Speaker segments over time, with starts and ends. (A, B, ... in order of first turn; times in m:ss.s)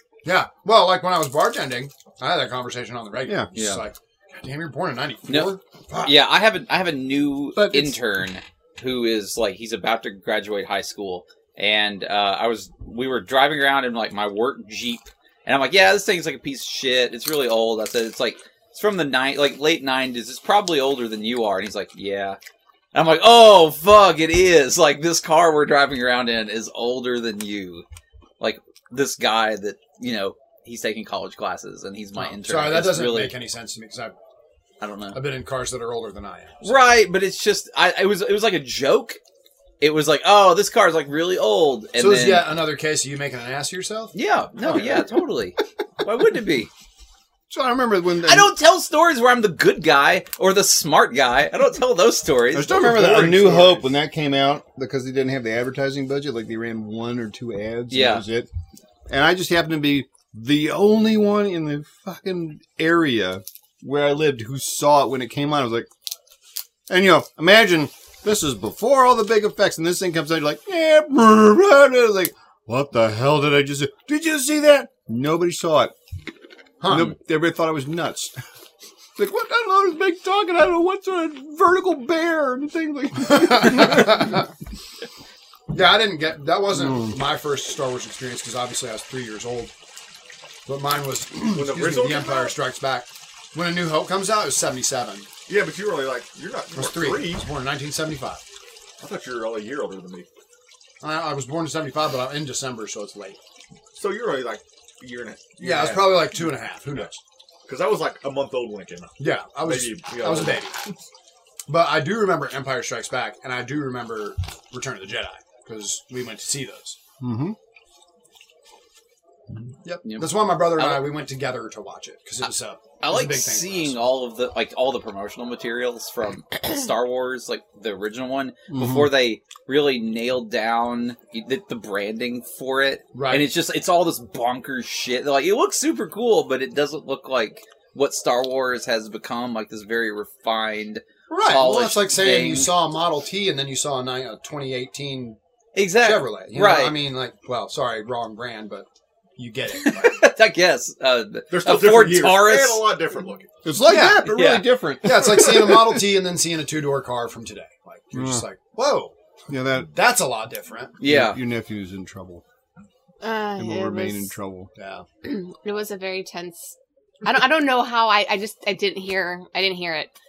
0:00.2-0:06.2 A
0:03.6-0:03.8 B
0:05.3-0:22.4 B
0:07.5-0:08.0 A
0:22.9-0:27.8 B
0:28.4-0:33.4 B
0:32.2-0:34.2 A
0:34.8-0:35.2 B
0:35.1-0:37.0 A
0:36.6-0:39.2 B
0:39.8-0:42.6 B
0:42.0-0:44.1 A
0:44.1-0:46.7 B
0:44.6-0:44.9 C
0:47.5-0:48.5 D
0:48.2-0:52.7 B
0:52.5-0:58.5 D
0:52.6-0:53.9 C
0:57.9-0:58.2 B
0:59.1-1:05.9 D
1:06.9-1:15.9 D
1:16.8-1:17.1 A
1:16.8-1:18.3 D
1:19.2-1:24.4 D
1:23.3-1:24.4 A
1:25.7-1:29.7 A
1:26.8-1:27.1 D
1:30.7-1:35.3 A
1:31.4-1:32.6 C
1:35.5-1:37.5 C
1:36.7-1:38.4 A
1:39.0-1:40.3 C
1:41.0-1:43.4 A
1:43.9-1:47.1 C
1:45.6-1:47.2 A
1:47.7-1:50.9 C
1:49.2-1:50.8 A
1:51.7-1:57.0 A
1:57.2-1:57.6 D
1:59.8-2:04.1 A
2:00.0-2:01.2 B
2:02.4-2:22.7 B
2:08.7-2:09.1 D
2:13.1-2:13.5 A
2:21.3-2:25.4 A
2:25.8-2:27.0 B
2:26.0-2:30.0 A
2:29.7-2:32.8 B
2:31.5-2:33.6 C
2:33.6-2:35.4 D
2:33.7-2:34.3 A
2:34.3-2:34.7 B
2:35.0-2:39.1 A
2:35.2-2:36.0 C
2:38.1-2:38.4 D
2:39.5-2:39.9 D
2:39.9-2:41.0 A
2:41.0-2:41.4 B
2:41.0-2:42.4 D
2:43.2-2:44.3 E
2:43.6-2:44.7 D
2:44.8-2:45.0 A
2:45.2-2:50.1 E